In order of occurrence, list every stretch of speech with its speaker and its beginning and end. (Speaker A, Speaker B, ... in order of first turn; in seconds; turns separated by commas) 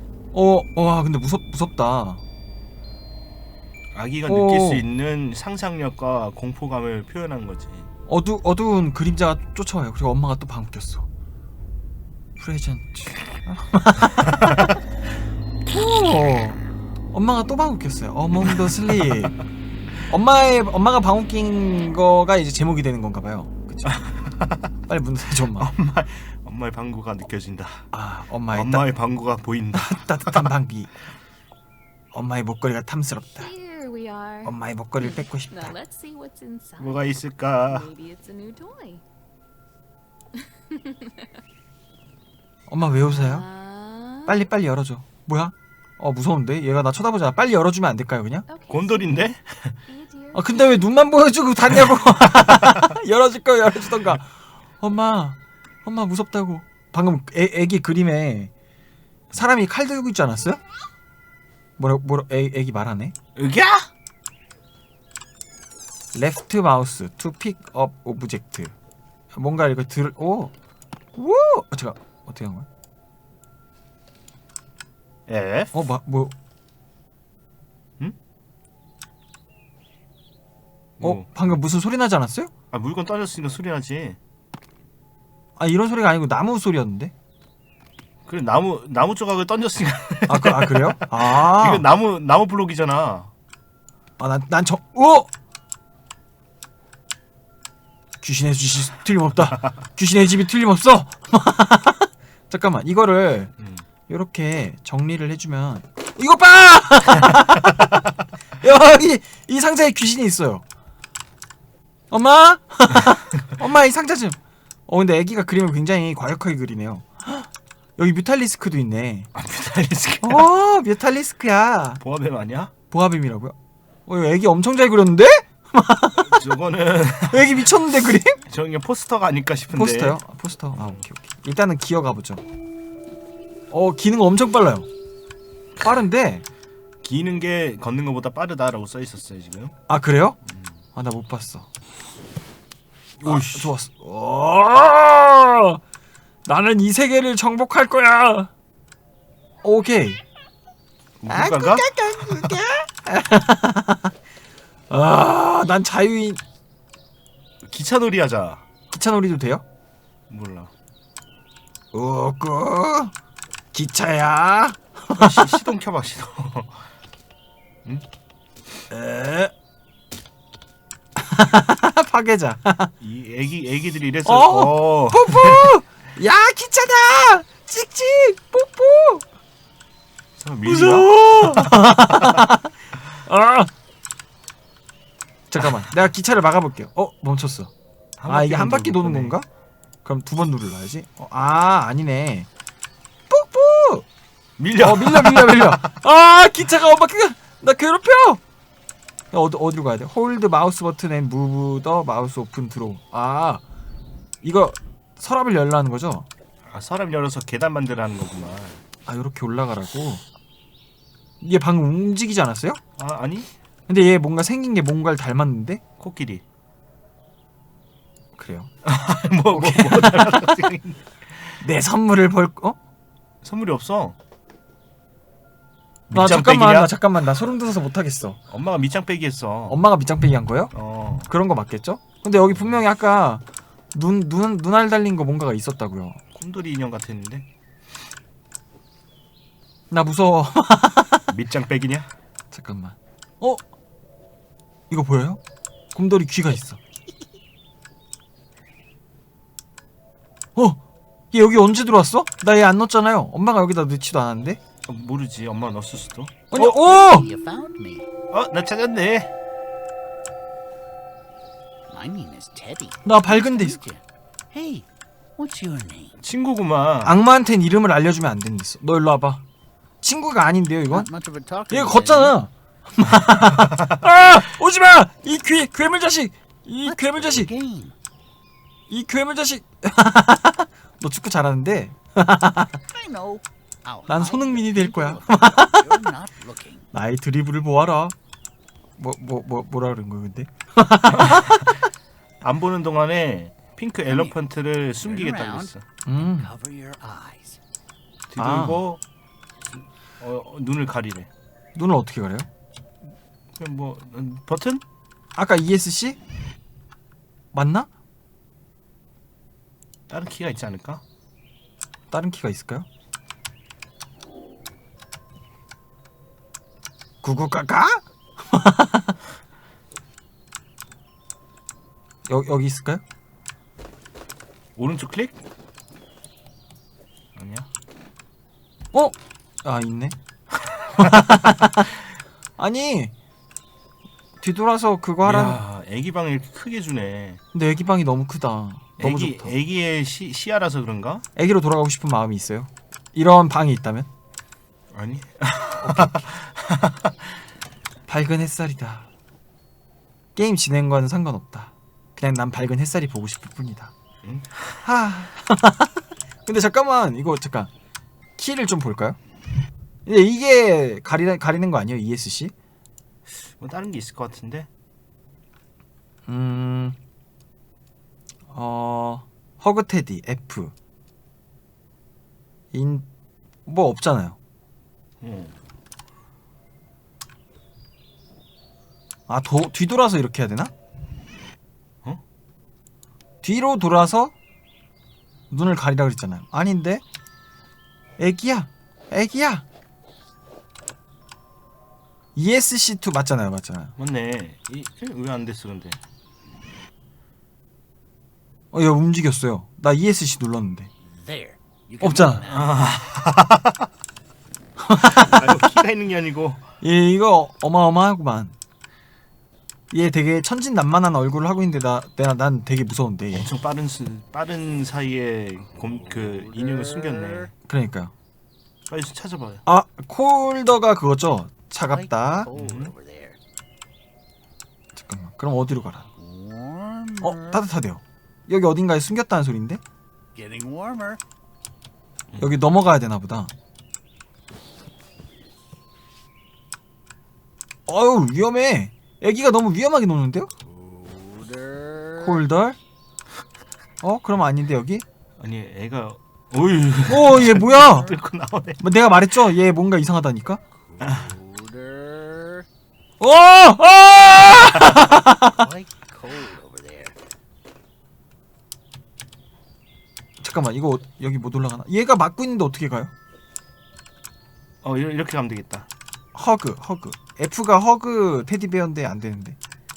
Speaker A: 0.3-2.2, Speaker B: 3.9-7.9, Speaker A: 4.2-4.8, Speaker A: 8.1-11.1, Speaker A: 12.4-14.8, Speaker A: 15.7-16.6, Speaker A: 17.1-19.4, Speaker B: 18.5-19.2, Speaker A: 20.1-24.0, Speaker B: 23.9-24.6, Speaker A: 24.9-25.7, Speaker B: 25.4-27.8, Speaker A: 27.9-28.9, Speaker B: 28.5-30.5, Speaker A: 29.7-31.0, Speaker A: 32.1-33.5, Speaker C: 33.2-39.0, Speaker A: 34.4-35.8, Speaker B: 36.8-37.9, Speaker C: 40.4-41.3, Speaker A: 42.7-43.5, Speaker C: 42.9-44.5, Speaker A: 44.2-48.5, Speaker C: 48.5-49.2, Speaker B: 48.7-49.8, Speaker C: 49.9-50.8, Speaker A: 50.3-58.5, Speaker A: 59.3-60.6, Speaker A: 61.8-63.1, Speaker B: 63.4-63.9, Speaker A: 66.1-68.7, Speaker A: 69.3-70.5, Speaker A: 71.1-72.7, Speaker B: 75.3-75.7, Speaker A: 75.7-76.3, Speaker B: 81.0-81.5, Speaker A: 81.0-82.5, Speaker B: 82.7-84.2, Speaker A: 85.6-87.1, Speaker B: 88.2-93.3, Speaker A: 90.3-91.9, Speaker A: 94.2-95.3, Speaker A: 98.2-103.5, Speaker B: 103.6-103.8, Speaker A: 104.1-108.0, Speaker A: 108.6-110.6, Speaker A: 112.1-119.3, Speaker B: 119.3-120.5, Speaker A: 120.2-122.0, Speaker B: 122.0-122.7, Speaker A: 122.9-123.5, Speaker A: 124.1-126.5, Speaker B: 126.2-127.8, Speaker A: 127.3-128.4, Speaker B: 128.5-130.2, Speaker A: 129.7-132.4, Speaker B: 130.7-131.0, Speaker A: 133.7-134.9, Speaker A: 135.8-136.4, Speaker B: 137.0-139.7, Speaker A: 139.9-140.4, Speaker A: 140.9-141.7, Speaker B: 143.2-143.7, Speaker A: 143.2-145.8, Speaker A: 146.4-148.5, Speaker A: 149.6-150.2, Speaker B: 151.2-152.5, Speaker A: 151.3-154.1, Speaker A: 154.9-156.4, Speaker B: 157.6-158.6, Speaker A: 158.9-159.6, Speaker B: 160.3-160.7, Speaker A: 161.9-163.1, Speaker A: 163.7-165.6, Speaker B: 165.2-166.7, Speaker A: 168.9-169.5, Speaker A: 171.2-172.9, Speaker B: 173.0-175.8, Speaker A: 174.2-179.2, Speaker B: 180.4-182.4, Speaker A: 180.6-182.7, Speaker A: 183.3-183.7, Speaker A: 185.5-187.7, Speaker B: 188.2-189.3, Speaker A: 188.3-189.5, Speaker A: 190.0-192.5, Speaker A: 193.3-194.0, Speaker B: 194.6-195.9, Speaker A: 194.8-198.4, Speaker A: 199.3-203.6, Speaker A: 204.4-206.3, Speaker B: 206.7-208.8, Speaker A: 209.1-210.2, Speaker A: 211.4-212.8, Speaker B: 213.0-213.5, Speaker A: 213.9-215.8, Speaker B: 216.0-216.4, Speaker A: 218.3-218.7, Speaker B: 218.8-221.5, Speaker A: 219.5-220.6, Speaker A: 221.6-222.8, Speaker B: 223.4-224.2, Speaker B: 226.1-226.9, Speaker A: 226.1-228.4, Speaker B: 228.5-229.8, Speaker A: 229.7-230.7, Speaker B: 230.7-231.3, Speaker A: 231.3-236.2, Speaker B: 236.3-237.4, Speaker A: 239.9-241.3, Speaker B: 241.3-242.1, Speaker A: 242.5-243.6, Speaker A: 244.9-245.4, Speaker A: 245.9-246.8, Speaker A: 250.6-250.8, Speaker A: 251.3-254.6, Speaker B: 254.9-256.9, Speaker A: 256.5-257.3, Speaker D: 256.7-258.1, Speaker B: 258.3-259.3, Speaker D: 261.9-264.9, Speaker A: 263.0-263.8, Speaker D: 265.4-266.1, Speaker B: 266.2-267.2, Speaker A: 267.0-269.4, Speaker A: 270.0-271.1, Speaker D: 270.9-272.4, Speaker A: 271.7-277.5, Speaker D: 276.8-277.9, Speaker A: 278.9-282.8, Speaker D: 282.9-286.9, Speaker A: 284.1-286.1, Speaker A: 286.9-288.1, Speaker A: 289.0-291.7, Speaker B: 291.2-291.4, Speaker B: 292.4-295.8, Speaker D: 294.0-294.4, Speaker D: 295.0-297.6, Speaker A: 296.1-296.5, Speaker B: 298.3-299.0, Speaker A: 298.4-298.8, Speaker B: 300.2-301.3, Speaker A: 301.7-302.5, Speaker B: 303.6-304.8, Speaker A: 305.3-306.2, Speaker A: 307.5-307.9, Speaker B: 310.1-311.0, Speaker A: 312.1-312.9, Speaker A: 317.2-319.1, Speaker A: 322.3-323.0, Speaker B: 324.8-325.4, Speaker B: 327.4-327.7, Speaker A: 328.9-330.1, Speaker A: 330.9-331.9, Speaker A: 332.6-333.1, Speaker A: 334.4-335.6, Speaker B: 335.2-337.4, Speaker A: 337.5-339.6, Speaker B: 339.0-341.2, Speaker A: 341.4-344.1, Speaker B: 344.9-347.1, Speaker A: 345.8-346.2, Speaker A: 348.1-349.1, Speaker A: 350.3-353.9, Speaker B: 354.2-354.8, Speaker A: 354.8-357.7, Speaker A: 358.4-359.2, Speaker A: 360.1-362.5, Speaker B: 363.3-364.7, Speaker A: 366.3-367.0, Speaker A: 368.5-370.7, Speaker A: 372.7-373.1, Speaker A: 373.6-374.4, Speaker B: 375.2-375.5, Speaker A: 379.3-380.7, Speaker A: 383.4-384.3, Speaker A: 385.5-387.0, Speaker A: 388.2-389.6, Speaker A: 392.4-393.9, Speaker B: 394.0-396.0, Speaker A: 398.7-400.9, Speaker D: 401.0-402.8, Speaker A: 402.0-402.4, Speaker B: 402.5-403.8, Speaker A: 404.8-405.5, Speaker B: 405.0-406.6, Speaker A: 406.8-408.5, Speaker A: 409.9-413.5, Speaker B: 413.3-417.5, Speaker D: 415.8-417.5, Speaker A: 417.7-418.1, Speaker B: 418.9-419.6, Speaker A: 419.6-422.5, Speaker D: 421.8-423.4, Speaker B: 422.5-422.9, Speaker A: 424.9-426.1, Speaker D: 426.1-427.6, Speaker A: 427.2-429.8, Speaker D: 430.3-431.2, Speaker B: 432.3-432.6, Speaker A: 432.4-433.5, Speaker A: 437.9-440.5, Speaker D: 440.7-442.4, Speaker A: 442.2-442.8, Speaker A: 444.0-445.0, Speaker B: 445.4-448.8, Speaker A: 447.1-448.1, Speaker A: 448.8-450.6, Speaker D: 450.9-452.7, Speaker B: 451.0-451.3, Speaker A: 453.2-455.7, Speaker D: 455.4-457.1, Speaker A: 460.4-463.1, Speaker B: 464.8-465.9, Speaker A: 466.3-469.6